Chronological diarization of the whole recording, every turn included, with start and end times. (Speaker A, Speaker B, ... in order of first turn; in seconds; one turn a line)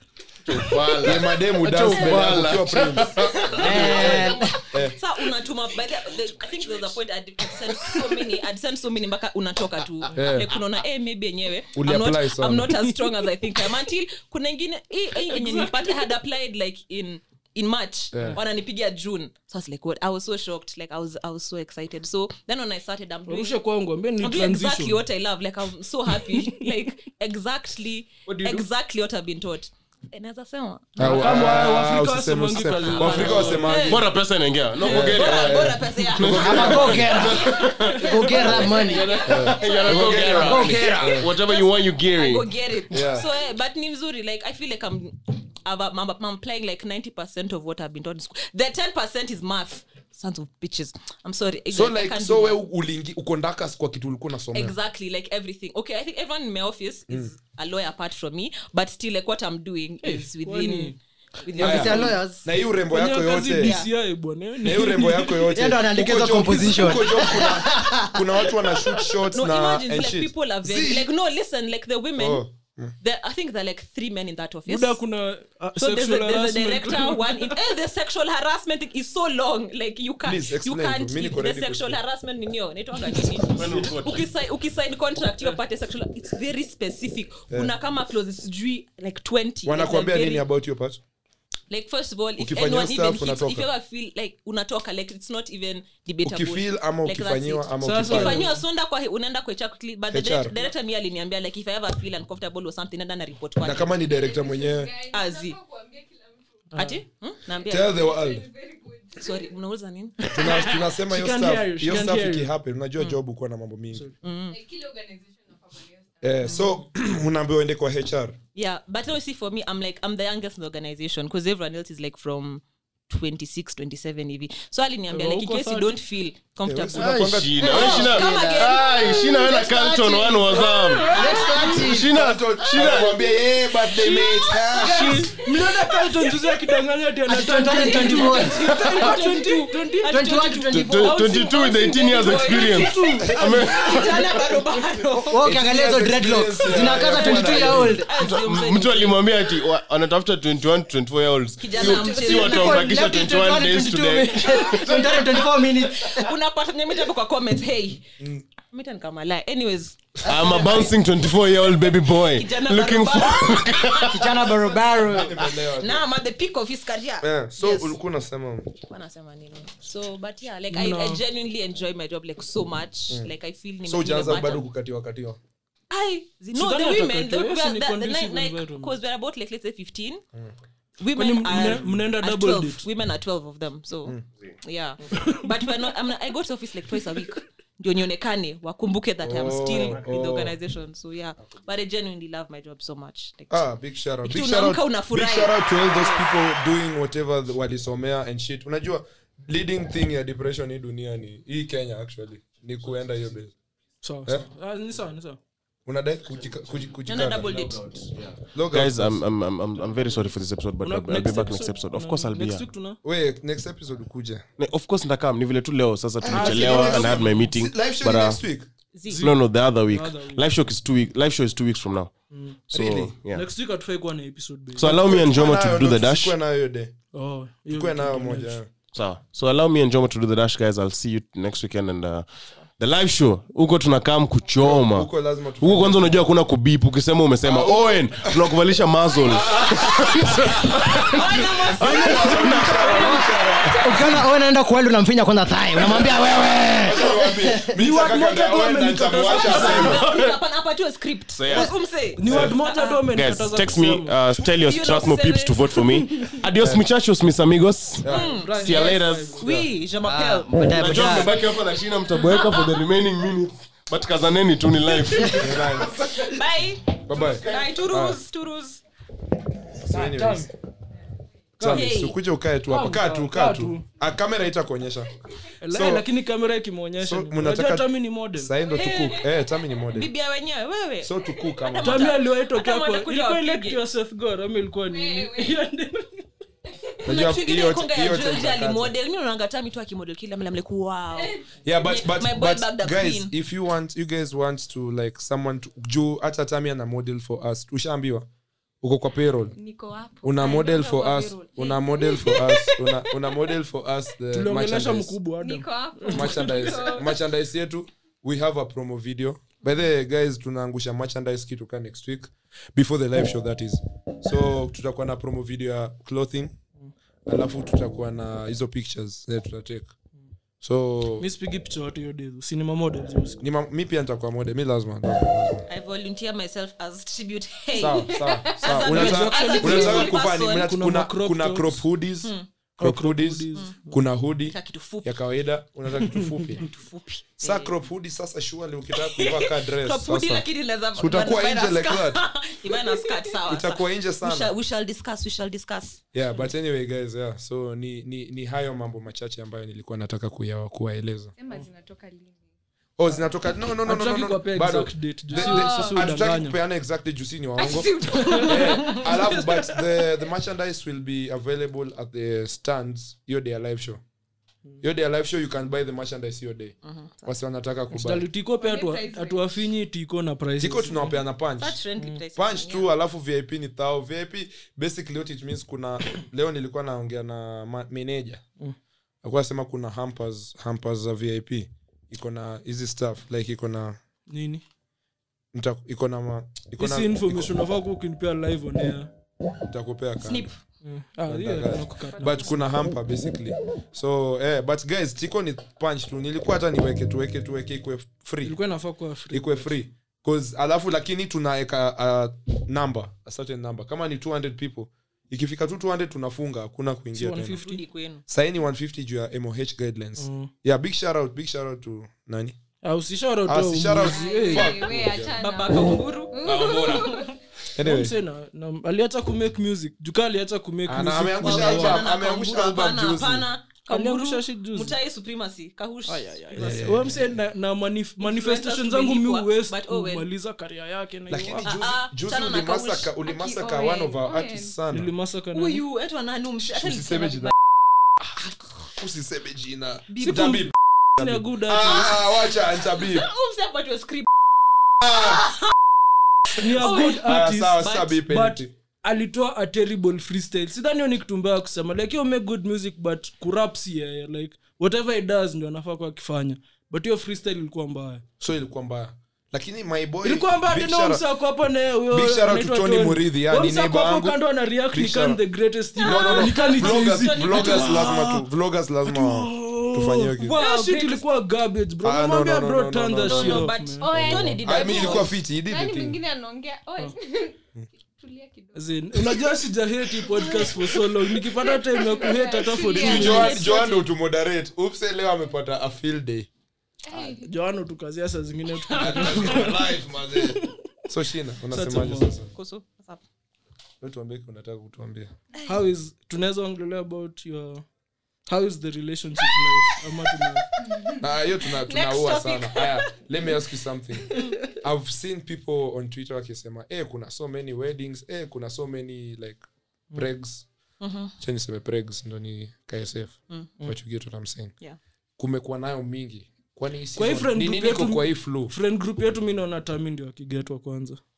Speaker A: 0.5-4.1
Speaker B: 1.0-5.0
Speaker C: 3.5-4.2
Speaker D: 3.6-4.6
Speaker C: 4.9-23.6
Speaker B: 10.2-10.5
Speaker B: 11.8-12.8
Speaker E: 15.2-16.0
Speaker B: 18.1-18.4
Speaker E: 23.3-25.0
Speaker C: 24.2-31.3
Speaker E: 26.2-26.7
Speaker E: 31.0-34.0
Speaker B: 31.0-34.0
Speaker C: 32.8-34.1
Speaker A: 33.1-42.5
Speaker C: 34.8-52.6
Speaker B: 34.8-37.3
Speaker D: 36.4-39.3
Speaker B: 39.2-41.4
Speaker D: 40.3-41.2
Speaker B: 42.9-43.3
Speaker B: 51.7-54.8
Speaker C: 54.5-62.2
Speaker E: 60.0-61.0
Speaker D: 61.5-62.5
Speaker B: 61.6-63.8
Speaker E: 62.9-65.5
Speaker C: 63.6-63.9
Speaker B: 64.6-71.1
Speaker D: 65.5-68.2
Speaker C: 69.3-72.5
Speaker B: 72.2-72.9
Speaker C: 73.0-75.0
Speaker E: 74.7-77.6
Speaker C: 75.8-90.5
Speaker B: 80.2-82.0
Speaker A: 83.5-84.2
Speaker B: 89.7-91.0
Speaker C: 91.7-103.9
Speaker B: 92.4-93.7
Speaker B: 96.2-98.5
Speaker E: 97.8-98.6
Speaker B: 100.1-100.6
Speaker B: 103.6-104.9
Speaker F: 103.9-106.7
Speaker C: 105.1-105.6
Speaker E: 106.7-107.0
Speaker C: 106.8-108.1
Speaker F: 107.6-109.5
Speaker B: 107.7-108.5
Speaker C: 109.2-110.3
Speaker E: 110.2-112.5
Speaker B: 110.3-114.1
Speaker C: 114.2-114.6
Speaker F: 114.5-116.5
Speaker B: 116.2-118.4
Speaker C: 116.5-116.7
Speaker C: 118.5-131.9
Speaker E: 125.1-126.0
Speaker B: 126.7-128.1
Speaker A: 127.0-131.2
Speaker D: 127.6-132.1
Speaker E: 130.7-131.8
Speaker A: 131.7-133.3
Speaker B: 132.0-135.3
Speaker C: 134.7-135.3
Speaker E: 134.7-141.1
Speaker D: 137.3-138.8
Speaker C: 137.7-145.4
Speaker A: 138.8-139.1
Speaker D: 140.1-141.2
Speaker A: 140.7-144.4
Speaker E: 142.3-144.0
Speaker D: 145.3-148.1
Speaker B: 145.4-148.0
Speaker C: 146.7-149.4
Speaker A: 148.2-155.1
Speaker C: 151.6-152.9
Speaker D: 151.8-156.3
Speaker C: 154.5-158.1
Speaker B: 158.1-158.5
Speaker C: 158.7-160.9
Speaker A: 160.2-164.3
Speaker C: 162.1-164.8
Speaker D: 164.1-165.4
Speaker B: 164.9-166.1
Speaker C: 165.4-168.0
Speaker B: 167.2-168.8
Speaker C: 168.9-174.6
Speaker E: 170.7-171.2
Speaker B: 173.9-175.4
Speaker C: 175.9-180.2
Speaker E: 176.5-179.0
Speaker C: 181.0-193.7
Speaker E: 181.2-182.9
Speaker E: 185.1-185.4
Speaker B: 189.2-190.6
Speaker B: 193.5-203.5
Speaker C: 194.2-196.3
Speaker E: 204.0-205.4
Speaker B: 205.9-207.6
Speaker C: 207.1-208.0
Speaker A: 207.5-212.7
Speaker B: 208.5-209.2
Speaker E: 210.8-213.0
Speaker B: 213.0-214.4
Speaker A: 214.6-218.4
Speaker B: 216.2-218.7
Speaker E: 216.3-217.5
Speaker C: 218.9-219.2
Speaker E: 219.1-220.5
Speaker A: 219.2-222.1
Speaker E: 222.3-222.6
Speaker A: 222.7-223.5
Speaker B: 222.7-223.2
Speaker E: 223.3-224.9
Speaker A: 224.8-226.3
Speaker B: 224.8-226.9
Speaker E: 227.1-228.6
Speaker B: 227.7-228.7
Speaker A: 228.9-232.3
Speaker A: 232.8-241.2
Speaker B: 234.6-236.1
Speaker B: 237.4-238.5
Speaker B: 239.2-240.8
Speaker C: 240.9-244.0
Speaker B: 241.4-244.1
Speaker A: 241.8-243.1
Speaker D: 243.8-247.7
Speaker B: 246.8-250.1
Speaker E: 247.7-250.0
Speaker C: 249.3-253.0
Speaker A: 249.6-250.3
Speaker A: 251.3-251.7
Speaker E: 252.2-254.2
Speaker A: 253.1-259.7
Speaker C: 254.4-255.8
Speaker B: 258.0-258.3
Speaker C: 258.1-261.3
Speaker E: 258.1-259.5
Speaker D: 260.0-261.3
Speaker A: 260.6-266.2
Speaker C: 262.3-262.7
Speaker C: 265.1-265.4
Speaker B: 265.4-266.0
Speaker C: 266.1-268.8
Speaker B: 267.1-268.2
Speaker B: 269.8-270.5
Speaker E: 269.9-270.5
Speaker E: 271.6-271.9
Speaker B: 271.6-275.1
Speaker C: 271.7-272.2
Speaker E: 272.7-273.9
Speaker E: 275.6-278.5
Speaker B: 275.7-276.1
Speaker B: 277.0-280.1
Speaker C: 278.7-279.3
Speaker C: 279.9-283.8
Speaker B: 281.0-282.1
Speaker E: 281.8-286.2
Speaker F: 284.9-285.6
Speaker B: 287.0-289.0
Speaker C: 287.1-293.3
Speaker F: 291.1-291.4
Speaker B: 291.6-298.3
Speaker B: 298.8-299.6
Speaker F: 299.5-303.4
Speaker B: 300.2-305.2
Speaker E: 304.3-306.7
Speaker F: 305.4-307.2
Speaker B: 306.1-316.6
Speaker B: 317.3-319.9
Speaker B: 320.6-321.3
Speaker E: 321.2-323.4
Speaker B: 323.4-325.7
Speaker C: 325.7-330.7
Speaker F: 327.8-328.7
Speaker B: 327.8-336.7
Speaker E: 328.9-331.8
Speaker E: 332.8-333.8
Speaker C: 334.5-335.2
Speaker E: 336.0-336.5
Speaker C: 336.5-337.7
Speaker B: 337.4-342.2
Speaker C: 338.9-346.0
Speaker B: 343.5-344.5
Speaker B: 346.1-351.3
Speaker F: 351.4-352.4
Speaker B: 353.0-357.9
Speaker E: 353.9-356.6
Speaker F: 355.3-356.0
Speaker F: 357.6-359.1
Speaker E: 358.2-359.8
Speaker B: 358.4-364.0
Speaker B: 364.8-368.3
Speaker C: 366.9-367.3
Speaker E: 367.9-371.2
Speaker F: 368.6-369.7
Speaker B: 370.6-371.8
Speaker C: 371.6-372.9
Speaker B: 372.4-378.4
Speaker B: 379.2-384.0
Speaker E: 384.3-384.6
Speaker B: 385.5-387.5
Speaker E: 386.8-389.1
Speaker B: 389.7-390.5
Speaker C: 390.2-390.5
Speaker E: 390.8-392.6
Speaker B: 391.3-398.6
Speaker E: 398.4-399.8
Speaker B: 399.3-407.6
Speaker E: 407.1-407.8
Speaker C: 407.5-408.2
Speaker B: 408.3-412.6
Speaker E: 410.2-410.5
Speaker E: 412.8-414.7
Speaker B: 413.5-415.4
Speaker F: 414.0-417.3
Speaker C: 415.4-417.2
Speaker B: 416.4-418.1
Speaker E: 417.8-422.0
Speaker B: 420.9-423.5
Speaker C: 421.4-426.8
Speaker E: 423.9-425.0
Speaker E: 426.1-431.7
Speaker B: 426.6-427.4
Speaker C: 428.2-430.3
Speaker B: 431.3-435.1
Speaker C: 431.6-433.1
Speaker F: 433.2-434.7
Speaker E: 434.9-435.8
Speaker C: 435.5-437.5
Speaker B: 436.7-437.5
Speaker B: 438.9-443.3
Speaker C: 440.1-440.5
Speaker E: 440.2-442.2
Speaker C: 442.8-444.3
Speaker B: 445.0-445.4
Speaker C: 445.0-445.7
Speaker E: 446.5-458.2
Speaker C: 446.6-448.2
Speaker B: 446.9-448.7
Speaker B: 458.4-461.2
Speaker E: 460.2-468.3
Speaker B: 462.1-465.4
Speaker B: 466.0-470.6
Speaker C: 466.1-468.4
Speaker E: 469.1-474.6
Speaker C: 470.4-471.2
Speaker B: 472.0-476.2
Speaker C: 473.2-475.4
Speaker F: 474.0-479.4
Speaker E: 478.8-483.6
Speaker F: 480.3-484.0
Speaker B: 482.9-486.5
Speaker C: 483.0-484.0
Speaker F: 487.1-487.5
Speaker E: 487.2-490.7
Speaker C: 488.9-489.7
Speaker B: 489.0-492.5
Speaker E: 491.7-492.3
Speaker C: 492.6-493.2
Speaker B: 494.0-495.3
Speaker E: 495.7-497.8
Speaker E: 498.5-500.7
Speaker F: 500.8-501.2
Speaker B: 501.2-509.6
Speaker C: 501.9-503.1
Speaker B: 510.1-510.7
Speaker C: 511.0-511.3
Speaker B: 511.4-514.7
Speaker B: 515.4-518.7
Speaker E: 517.2-521.2